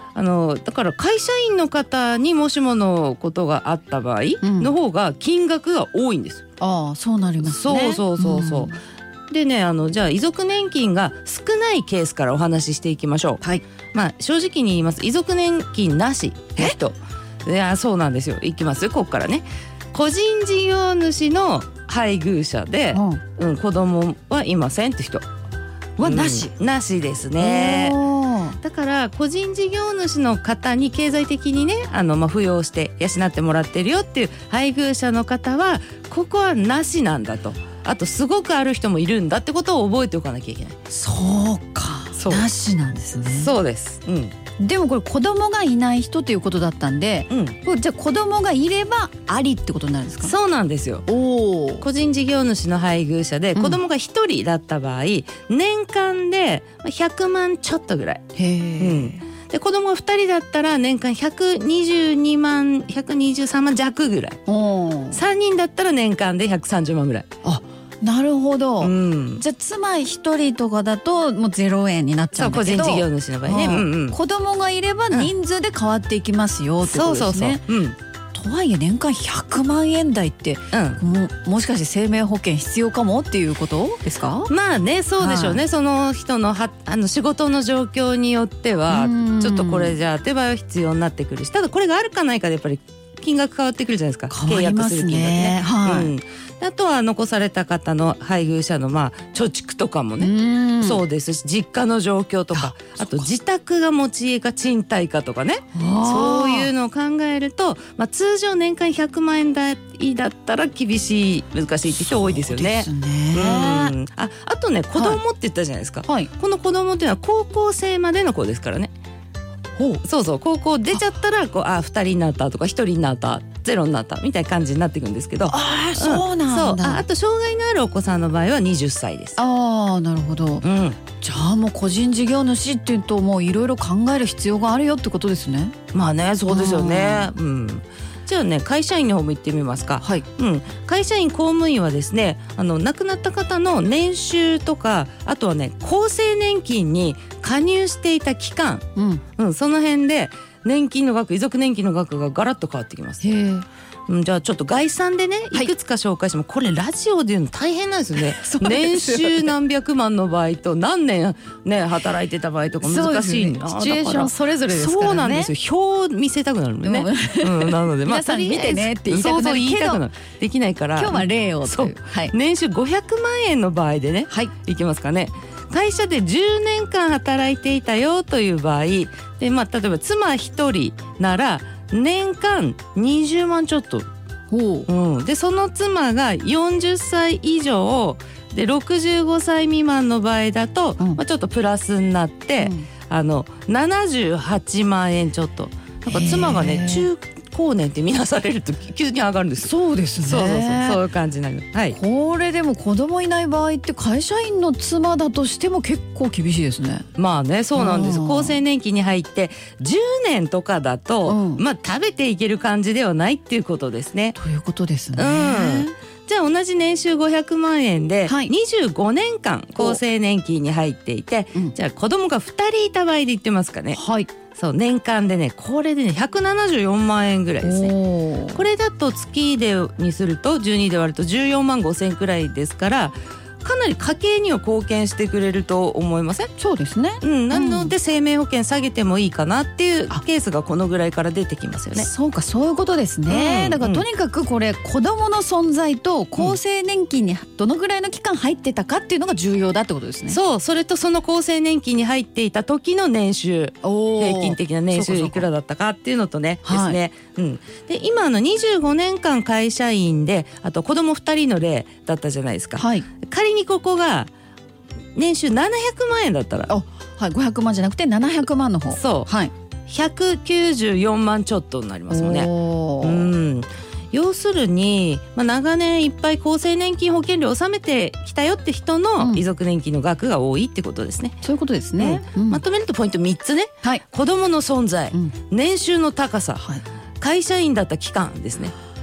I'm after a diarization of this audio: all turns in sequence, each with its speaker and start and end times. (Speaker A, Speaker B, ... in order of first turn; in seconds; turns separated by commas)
Speaker A: 0.1-6.4, Speaker B: 4.4-4.7, Speaker B: 6.6-8.7, Speaker A: 7.4-8.7, Speaker A: 9.3-25.2, Speaker B: 22.9-23.2, Speaker B: 26.0-26.5, Speaker A: 26.0-28.0, Speaker B: 27.4-28.6, Speaker A: 28.6-40.8, Speaker B: 40.9-43.5, Speaker A: 42.1-42.5, Speaker A: 43.2-44.3, Speaker B: 44.6-50.3, Speaker A: 47.3-47.6, Speaker A: 50.2-51.1, Speaker B: 51.1-51.9, Speaker A: 51.8-58.2, Speaker B: 53.5-53.8, Speaker B: 58.4-59.2, Speaker A: 58.8-64.4, Speaker B: 64.5-65.2, Speaker A: 65.1-67.2, Speaker B: 67.4-77.6, Speaker A: 68.8-69.4, Speaker A: 72.3-74.2, Speaker A: 76.8-78.0, Speaker B: 78.3-84.5, Speaker A: 80.7-81.0, Speaker A: 84.5-118.9, Speaker B: 85.2-85.6, Speaker B: 88.9-90.0, Speaker B: 94.3-96.1, Speaker B: 100.2-101.0, Speaker B: 102.5-103.3, Speaker B: 105.7-106.7, Speaker B: 111.9-113.9, Speaker B: 114.9-115.2, Speaker B: 116.0-116.3, Speaker B: 119.8-120.0, Speaker A: 120.0-129.4, Speaker B: 125.4-127.0, Speaker B: 129.4-130.7, Speaker A: 130.6-131.0, Speaker B: 131.2-135.7, Speaker A: 135.9-148.8, Speaker B: 136.4-137.3, Speaker B: 148.9-149.2, Speaker A: 149.4-153.2, Speaker B: 153.2-153.7, Speaker A: 154.1-184.1, Speaker B: 158.2-159.5, Speaker B: 162.8-165.5, Speaker B: 166.8-170.0, Speaker B: 170.9-172.3, Speaker B: 184.5-184.9, Speaker A: 184.9-202.0, Speaker B: 192.6-192.9, Speaker B: 196.1-197.1, Speaker B: 199.6-201.0, Speaker B: 201.9-207.1, Speaker A: 207.2-214.4, Speaker B: 207.7-208.6, Speaker B: 211.2-211.6, Speaker B: 214.3-215.9, Speaker A: 215.1-224.0, Speaker B: 218.2-218.5, Speaker B: 223.9-224.3, Speaker A: 224.5-227.9, Speaker B: 227.6-228.6, Speaker A: 228.5-236.5, Speaker B: 236.6-237.9, Speaker A: 237.2-242.1, Speaker B: 241.9-250.4, Speaker A: 243.3-244.1, Speaker A: 250.3-264.3, Speaker B: 253.8-255.5, Speaker B: 256.6-257.0, Speaker B: 262.8-263.1, Speaker A: 265.1-266.7, Speaker B: 266.7-269.5, Speaker A: 268.9-269.3, Speaker A: 269.9-272.5, Speaker B: 272.1-273.3, Speaker A: 273.0-281.4, Speaker B: 279.2-279.4, Speaker B: 281.4-282.6, Speaker A: 282.0-286.6, Speaker A: 287.2-288.7